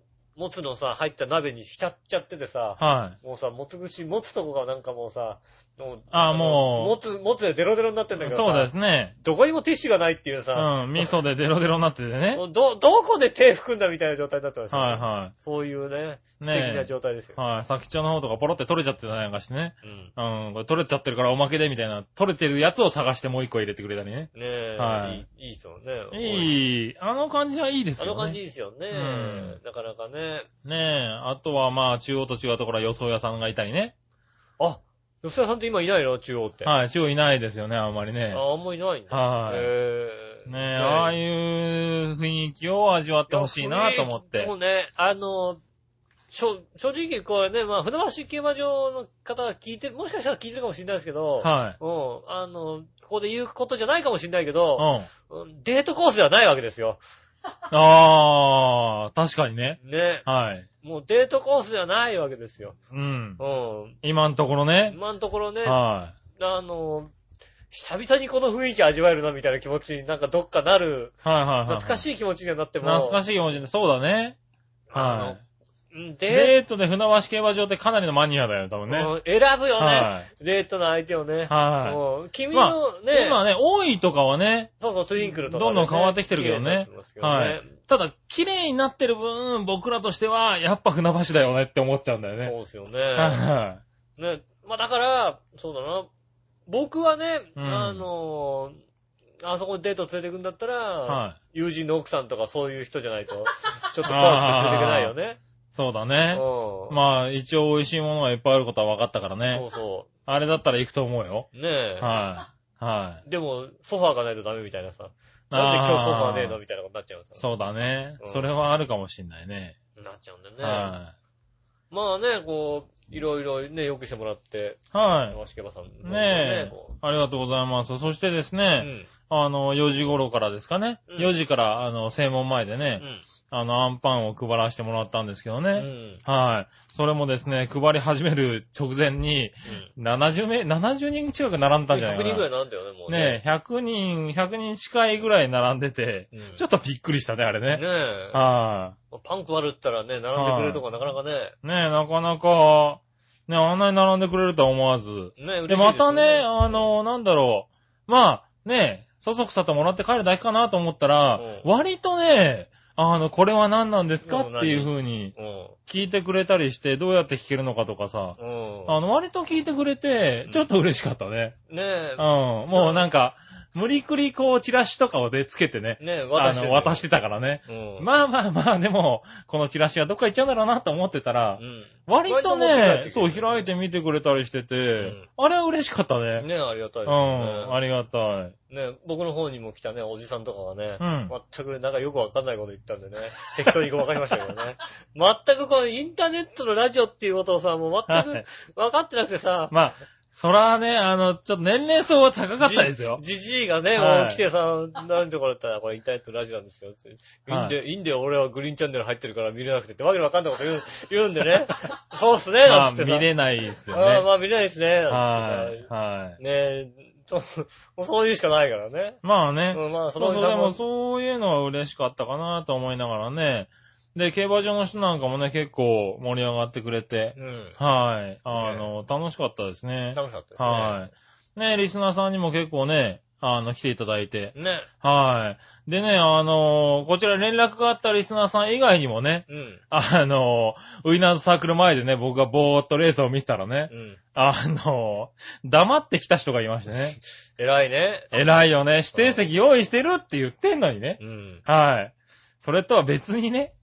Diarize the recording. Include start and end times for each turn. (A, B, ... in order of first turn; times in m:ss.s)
0:00.4-0:11.1 A
0:02.8-0:03.2 B
0:06.1-0:07.0 B
0:08.2-0:09.1 B
0:10.5-0:12.4 B
0:12.3-0:17.4 A
0:14.7-0:15.3 B
0:16.4-0:25.2 B
0:19.8-0:20.1 A
0:24.3-0:26.5 A
0:26.1-0:28.4 B
0:28.0-0:30.5 A
0:28.9-0:29.6 B
0:30.6-0:33.9 B
0:34.6-0:36.7 A
0:36.6-0:38.4 B
0:38.3-0:41.2 A
0:39.1-0:39.7 B
0:40.5-0:44.5 B
0:43.3-0:45.6 A
0:46.3-0:57.0 A
0:51.4-0:51.8 B
0:54.8-0:55.1 B
0:57.7-1:00.7 B
0:59.8-1:00.2 A
1:00.8-1:02.8 A
1:02.9-1:03.4 B
1:03.4-1:04.0 A
1:04.0-1:05.0 B
1:04.9-1:05.8 A
1:05.6-1:06.1 B
1:06.3-1:07.1 A
1:07.7-1:13.2 A
1:11.2-1:12.0 B
1:12.8-1:14.4 B
1:14.9-1:15.4 A
1:14.9-1:15.4 B
1:15.9-1:16.6 A
1:16.3-1:19.1 B
1:18.9-1:23.4 A
1:19.8-1:20.3 B
1:21.5-1:22.0 B
1:22.5-1:32.5 B
1:24.8-1:27.7 A
1:32.4-1:33.4 A
1:33.1-1:33.8 B
1:34.2-1:36.1 A
1:36.7-1:38.8 A
1:37.6-1:38.1 B
1:39.4-1:45.4 A
1:41.1-1:41.4 B
1:44.0-1:45.1 B
1:45.7-1:49.6 B
1:46.3-1:47.0 A
1:49.5-1:50.1 A
1:50.3-1:51.5 B
1:51.5-1:52.2 A
1:52.0-1:53.2 B
1:53.2-1:57.5 A
1:55.5-1:56.6 B
1:57.4-1:59.8 B
1:58.2-1:58.5 A
2:00.0-2:01.0 A
2:00.6-2:01.1 B
2:01.9-2:07.0 A
2:04.9-2:05.4 B
2:06.0-2:22.5 B
2:08.8-2:09.1 A
2:11.1-2:11.3 A
2:15.7-2:16.2 A
2:21.9-2:23.4 A
2:23.1-2:28.9 B
2:26.3-2:26.6 A
2:27.7-2:28.4 A
2:29.1-2:31.5 A
2:30.3-2:30.8 B
2:31.6-2:45.3 B
2:35.4-2:36.8 A
2:41.4-2:41.7 A
2:44.2-2:45.8 A
2:45.9-2:51.6 B
2:48.4-2:49.0 A
2:51.7-2:53.0 A
2:52.2-3:06.5 B
2:56.0-2:57.0 A
2:57.7-2:58.1 A
3:01.6-3:03.7 A
3:05.0-3:05.3 A
3:06.4-3:07.8 A
3:07.0-3:08.5 B
3:08.7-3:19.7 A
3:11.0-3:11.3 B
3:18.1-3:18.4 B
3:19.7-3:23.2 B
3:22.6-3:33.3 A
3:23.9-3:24.4 B
3:27.5-3:27.8 B
3:32.6-3:34.3 B
3:33.9-3:39.2 A
3:35.1-3:36.4 B
3:39.2-4:07.2 B
3:39.7-3:40.8 A
3:47.4-3:47.8 A
3:48.5-3:48.9 A
3:50.1-3:51.1 A
3:54.5-3:54.9 A
3:59.5-3:59.8 A
4:03.9-4:04.2 A
4:07.6-4:08.4 A
4:08.3-4:13.7 B
4:09.1-4:09.4 A
4:11.2-4:11.6 A